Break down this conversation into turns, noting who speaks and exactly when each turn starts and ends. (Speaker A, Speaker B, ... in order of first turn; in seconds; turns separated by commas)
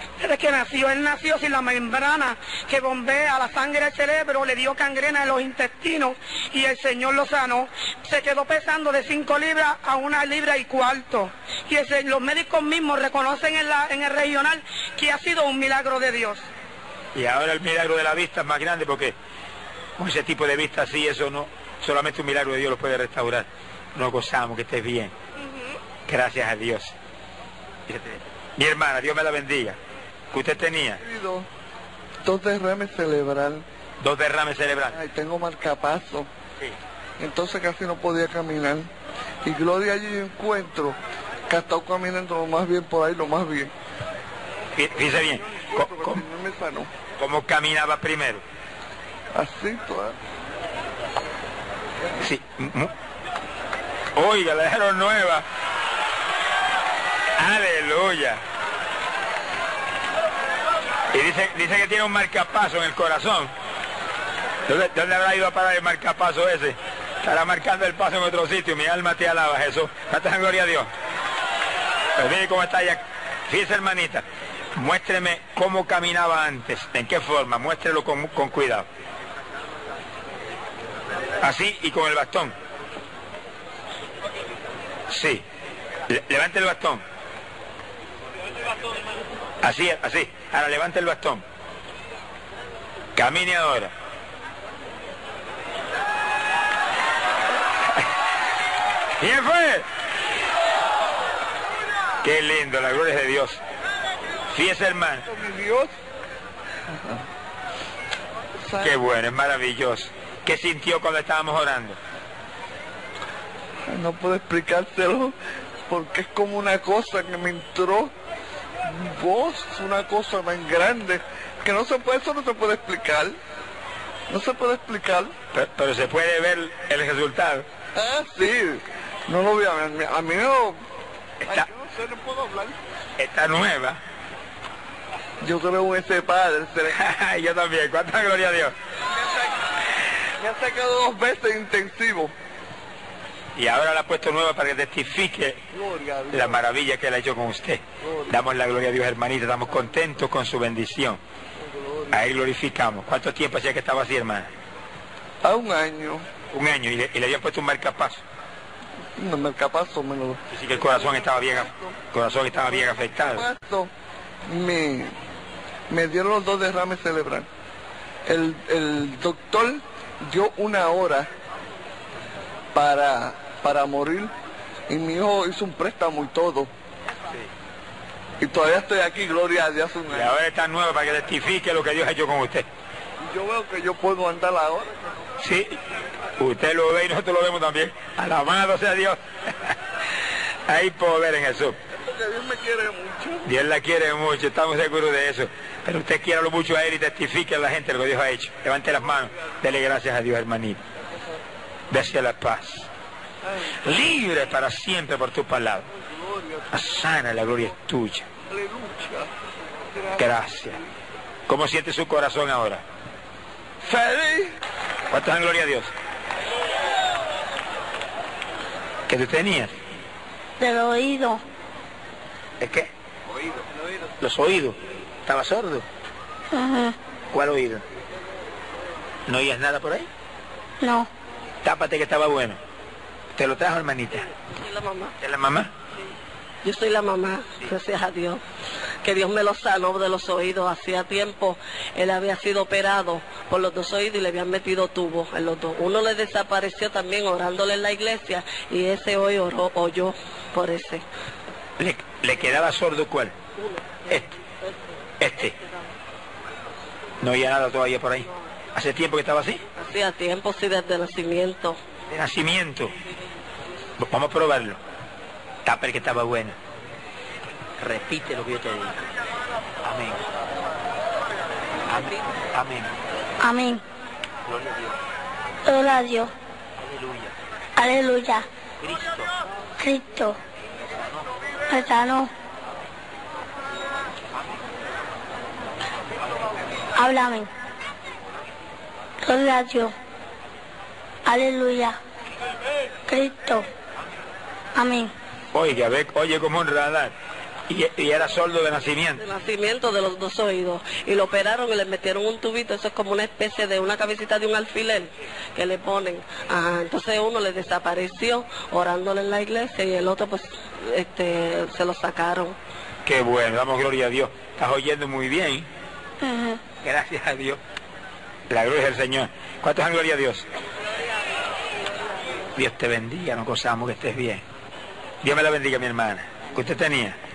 Speaker A: 0.2-16.5, Speaker B: 17.1-19.2, Speaker B: 20.0-25.1, Speaker B: 26.1-26.9, Speaker B: 27.9-29.8, Speaker B: 30.3-31.0, Speaker C: 31.0-31.5, Speaker C: 32.2-33.6, Speaker B: 34.0-35.0, Speaker C: 34.9-36.3, Speaker C: 37.2-38.9, Speaker C: 39.5-43.7, Speaker B: 44.8-46.2, Speaker C: 45.6-46.9, Speaker B: 47.2-48.4, Speaker C: 49.3-50.1, Speaker B: 52.2-52.9, Speaker B: 54.2-55.5, Speaker B: 57.4-58.4, Speaker B: 61.1-63.5, Speaker B: 64.7-70.9, Speaker B: 72.2-78.9, Speaker B: 81.4-82.5, Speaker B: 85.1-85.5, Speaker B: 86.1-87.0, Speaker B: 89.6-91.4, Speaker B: 93.2-93.9, Speaker B: 99.2-99.9, Speaker B: 102.2-103.6, Speaker B: 104.5-105.3, Speaker C: 105.3-105.9, Speaker C: 106.9-107.2, Speaker C: 108.6-109.0, Speaker B: 108.8-112.0, Speaker C: 113.9-115.3, Speaker C: 115.9-118.1, Speaker C: 118.8-123.4, Speaker C: 124.3-125.3, Speaker B: 125.5-127.7, Speaker C: 128.0-130.8, Speaker C: 131.4-132.8, Speaker B: 133.2-134.0, Speaker C: 135.4-137.0, Speaker B: 136.9-138.7, Speaker C: 140.4-142.3, Speaker B: 143.6-145.6, Speaker C: 145.8-146.6, Speaker B: 146.3-151.2, Speaker B: 152.1-154.5, Speaker C: 155.4-156.3, Speaker B: 156.5-158.2, Speaker C: 159.2-161.8, Speaker B: 160.5-163.5, Speaker C: 162.5-163.9, Speaker C: 164.5-165.2, Speaker C: 165.9-167.5, Speaker C: 168.3-171.3, Speaker C: 172.7-174.3, Speaker C: 174.9-176.7, Speaker C: 178.4-180.4, Speaker B: 180.1-182.7, Speaker C: 183.2-184.9, Speaker B: 185.4-185.8, Speaker B: 186.4-189.7, Speaker B: 190.7-191.8, Speaker C: 192.1-193.5, Speaker B: 193.4-200.8, Speaker B: 201.9-202.9, Speaker B: 203.8-205.9, Speaker B: 206.7-208.3, Speaker C: 208.5-209.3, Speaker C: 209.9-210.2, Speaker B: 210.2-210.8, Speaker B: 211.5-212.8, Speaker C: 213.8-214.6, Speaker B: 215.1-215.9, Speaker B: 219.1-219.8, Speaker D: 220.6-221.4, Speaker B: 222.6-222.9, Speaker B: 224.2-225.9, Speaker D: 226.5-227.0, Speaker B: 227.3-227.8, Speaker B: 229.3-230.1, Speaker D: 230.8-231.1, Speaker B: 231.6-232.6, Speaker B: 233.3-234.3, Speaker E: 234.5-235.1, Speaker B: 235.2-235.7, Speaker E: 236.6-238.4, Speaker E: 239.0-251.0, Speaker B: 251.8-253.3, Speaker E: 253.6-253.8, Speaker B: 254.1-254.4, Speaker B: 255.2-255.6, Speaker B: 257.2-259.6, Speaker E: 259.8-261.8, Speaker B: 262.1-262.9, Speaker B: 264.0-264.8, Speaker B: 265.6-266.6, Speaker B: 267.8-269.1, Speaker B: 269.8-270.2, Speaker B: 271.9-272.9, Speaker D: 273.4-273.8, Speaker B: 274.5-275.0, Speaker D: 275.6-276.3, Speaker B: 276.8-277.3, Speaker D: 277.8-278.5, Speaker B: 278.8-279.3, Speaker D: 279.8-280.4, Speaker D: 281.7-282.3, Speaker D: 286.9-287.5, Speaker D: 289.2-289.9, Speaker D: 291.3-292.0, Speaker D: 293.1-293.7, Speaker D: 294.8-295.1, Speaker B: 295.5-297.1, Speaker B: 297.7-299.2, Speaker E: 299.2-312.6, Speaker B: 313.1-315.7, Speaker D: 316.2-316.6, Speaker B: 316.8-317.6, Speaker B: 318.5-320.5, Speaker B: 322.6-324.4, Speaker B: 325.2-327.2